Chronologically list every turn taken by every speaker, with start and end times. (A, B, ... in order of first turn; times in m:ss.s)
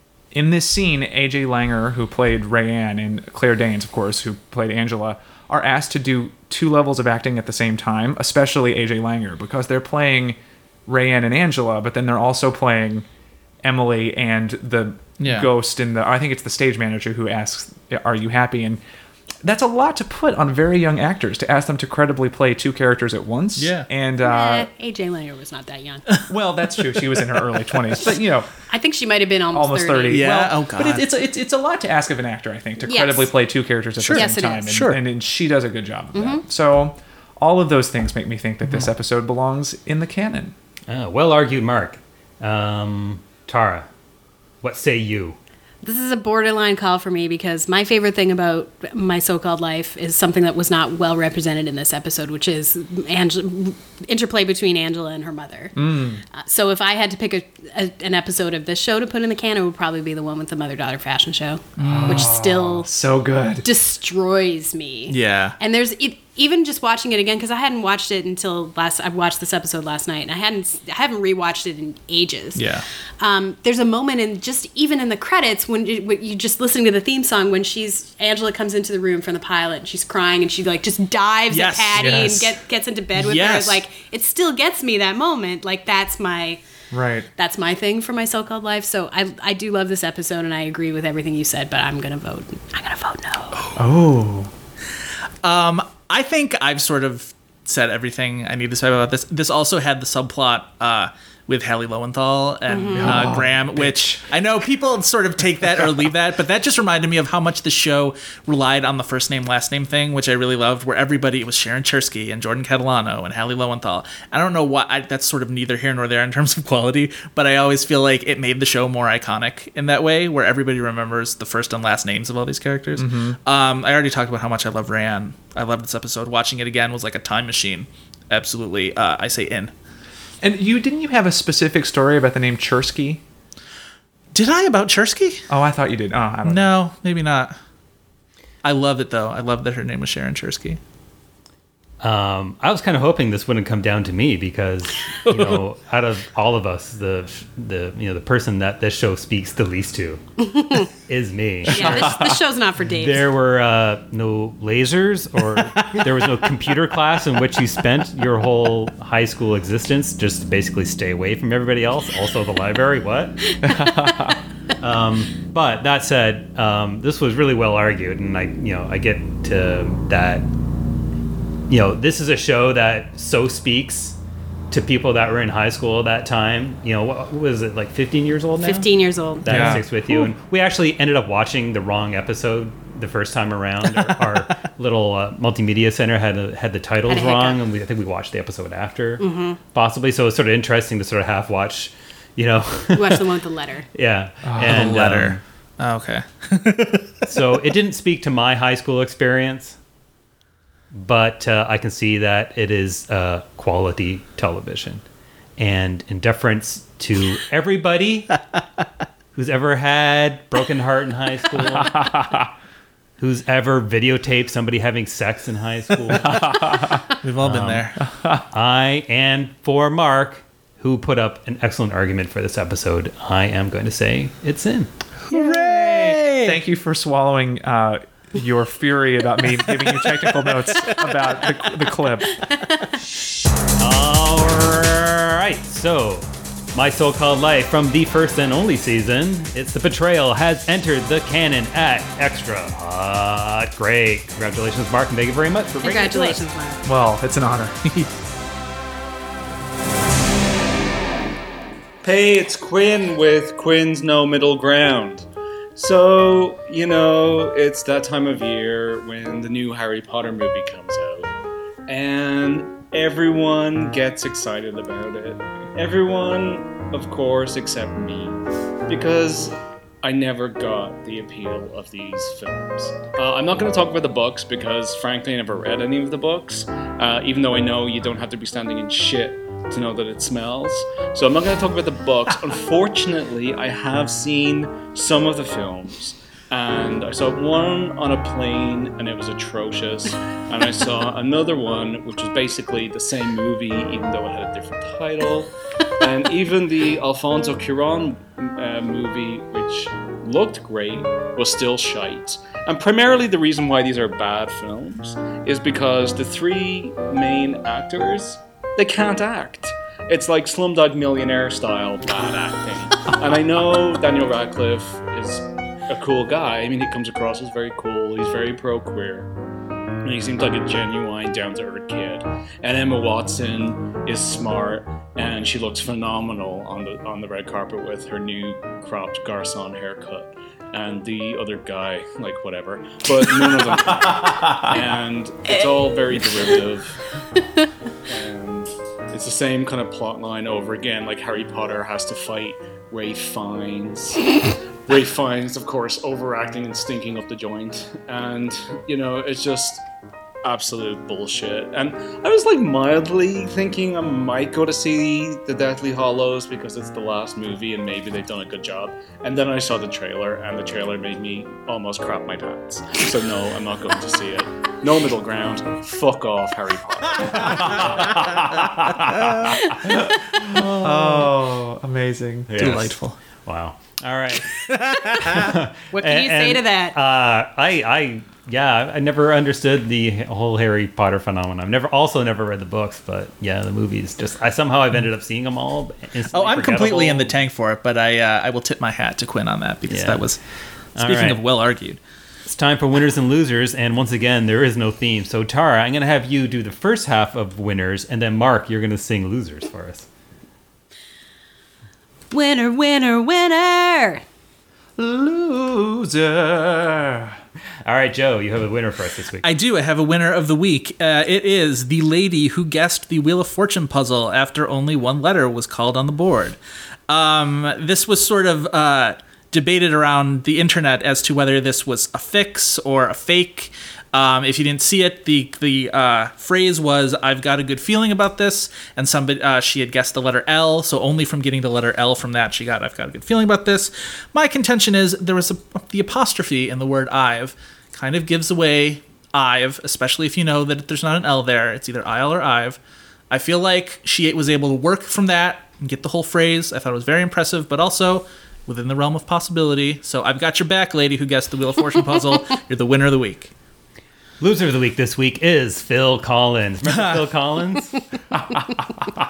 0:00.3-0:13.1 A
0:13.6-0:18.8 A
0:15.2-0:15.5 B
0:19.4-0:24.7 A
0:23.6-0:23.9 B
0:24.2-0:26.1 C
0:26.3-0:28.5 A
0:28.7-0:30.2 C
0:29.5-0:40.6 A
0:30.1-0:31.1 B
0:32.8-0:33.3 C
0:34.0-0:35.0 B
0:34.1-0:34.7 C
0:36.1-0:36.4 C
0:40.9-0:43.9 D
0:44.6-0:45.4 D
0:45.8-0:55.8 C
0:55.8-0:56.2 A
0:56.3-1:02.9 C
1:01.8-1:02.3 B
1:01.8-1:03.7 A
1:03.6-1:12.6 C
1:05.1-1:05.6 B
1:12.6-1:12.8 B
1:13.2-1:26.6 C
1:21.5-1:22.5 B
1:22.0-1:22.4 A
1:23.2-1:23.8 B
1:26.9-1:27.3 A
1:27.4-1:33.6 C
1:33.8-1:34.5 A
1:35.4-2:09.7 B
1:42.7-1:43.3 C
1:43.0-1:44.2 A
2:03.0-2:03.4 A
2:10.4-2:13.2 A
2:14.3-2:15.4 B
2:15.5-2:16.7 A
2:16.4-2:17.6 B
2:18.6-2:20.8 B
2:22.0-2:30.2 D
2:30.4-2:30.9 C
2:31.1-2:32.4 D
2:31.6-2:33.3 C
2:31.7-2:32.4 A
2:33.0-2:43.6 D
2:43.6-2:44.4 A
2:44.8-2:50.5 D
2:51.7-2:54.2 D
2:54.7-2:58.9 D
2:58.6-2:59.8 C
2:59.4-3:13.3 D
2:59.5-2:59.9 A
3:07.1-3:07.6 C
3:09.2-3:09.6 C
3:12.9-3:13.9 C
3:13.9-3:15.4 D
3:14.4-3:14.9 A
3:14.6-3:17.1 B
3:17.2-3:19.8 D
3:20.9-3:25.0 D
3:25.6-3:28.3 D
3:29.4-3:32.0 D
3:31.8-3:32.5 A
3:33.2-3:36.7 D
3:36.2-3:37.0 A
3:37.2-3:38.0 B
3:37.4-3:37.9 D
3:38.2-3:38.4 A
3:38.5-3:46.4 D
3:45.3-3:46.4 B
3:46.4-3:52.4 A
3:53.8-4:06.4 D
4:05.8-4:06.8 C
4:06.8-4:07.8 A
4:12.0-4:21.3 E
4:21.9-4:55.5 E
4:56.0-5:19.3 E
5:20.0-5:37.0 E
5:38.1-5:49.8 E
5:50.4-6:07.7 E
6:07.4-6:09.5 D
6:10.3-6:12.6 A
6:10.4-6:11.3 D
6:12.5-6:27.3 D
6:12.6-6:13.2 B
6:15.9-6:17.0 C
6:26.3-6:30.4 B
6:29.9-6:30.3 D
6:31.0-6:31.4 D
6:31.0-6:32.0 B
6:32.5-6:40.1 D
6:42.3-6:44.2 C
6:45.0-6:47.4 A
6:47.8-6:49.5 D
6:49.4-6:56.6 B
6:57.1-7:22.8 B
7:23.3-7:33.5 B
7:34.4-7:38.0 D